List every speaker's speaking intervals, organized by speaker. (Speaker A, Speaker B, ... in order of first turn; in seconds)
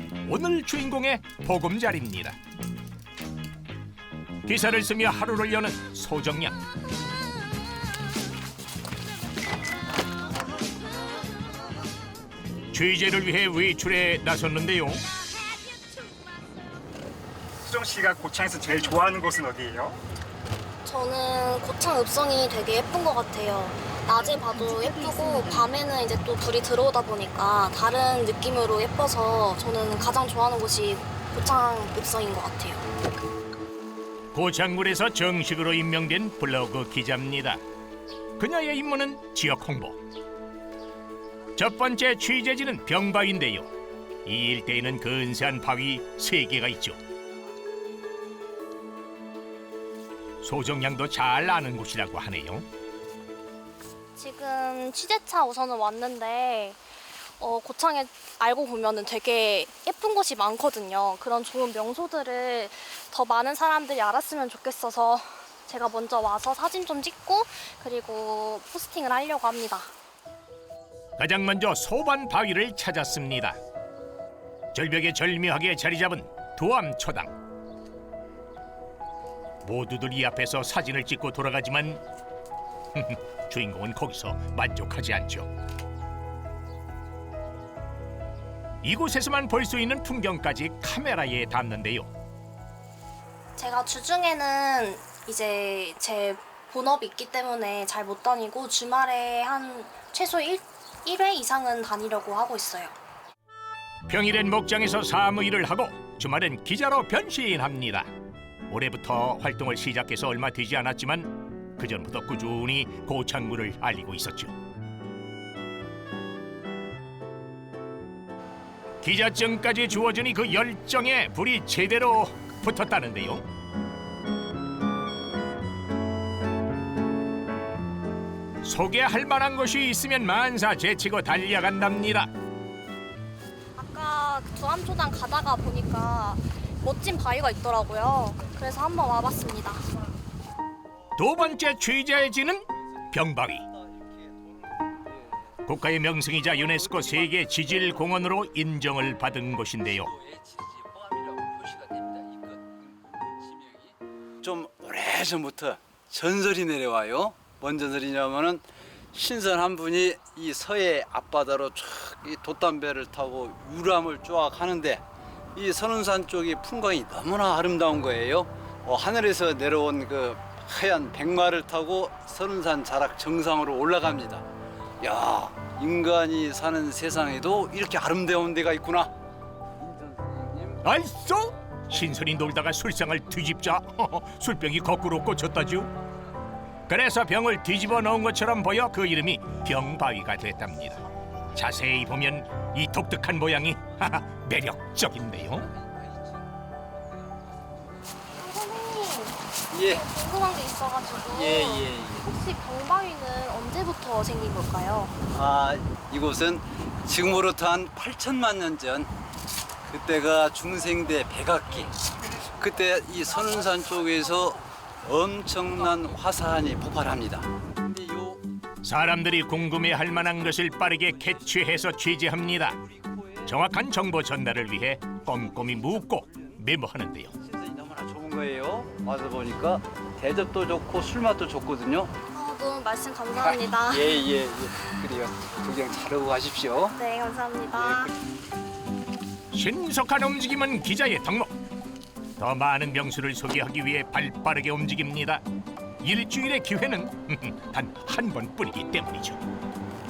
Speaker A: 0.2-2.4, 4.5-6.6, 12.7-15.0, 34.3-37.6, 38.4-40.0, 41.6-43.7, 44.2-47.0, 50.4-52.7, 71.2-73.6, 74.7-77.3, 79.6-82.0, 83.0-85.5, 88.8-92.1, 104.1-108.1, 108.7-114.5, 119.0-123.4, 128.6-132.3, 141.2-143.7, 145.7-150.1, 180.8-185.9, 186.9-191.0, 191.6-195.7, 218.8-222.8, 223.4-227.3, 239.5-241.5, 242.4-245.4, 246.0-249.4
Speaker B: 17.6-20.0
Speaker C: 20.9-32.9, 54.2-56.8, 57.4-69.9, 93.6-103.0, 133.8-139.8, 198.4-205.1, 232.3-234.2, 236.9-238.1
Speaker D: 154.4-165.0, 165.6-174.4, 175.0-179.1, 179.8-180.8, 199.7-200.0, 201.3-202.3, 205.3-209.1, 209.9-211.9, 212.6-218.4, 227.4-232.1, 233.4-236.9, 237.7-238.1